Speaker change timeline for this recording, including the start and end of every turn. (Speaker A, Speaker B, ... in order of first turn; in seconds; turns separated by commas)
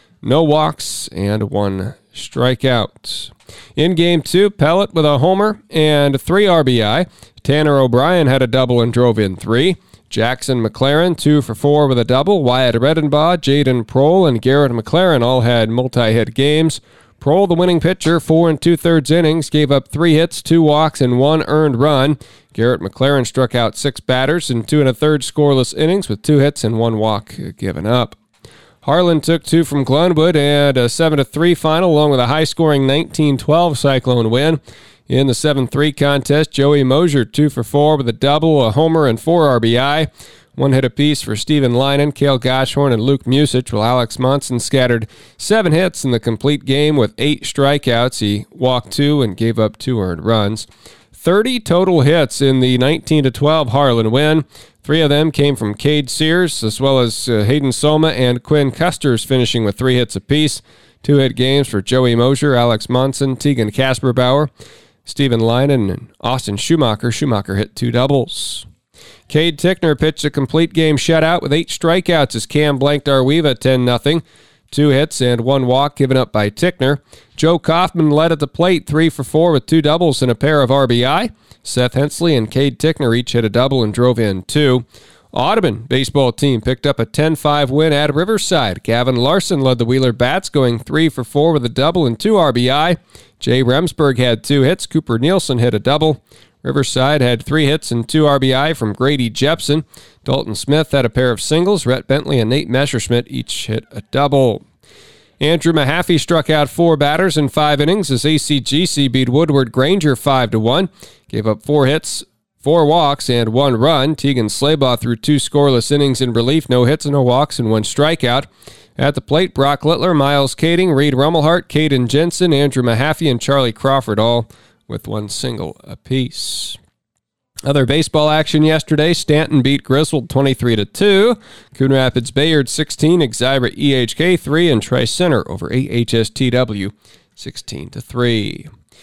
Speaker A: 0.2-28.1, Speaker A: 28.8-64.5, Speaker A: 65.0-68.7, Speaker A: 69.3-104.6, Speaker A: 105.4-126.8, Speaker A: 127.7-138.7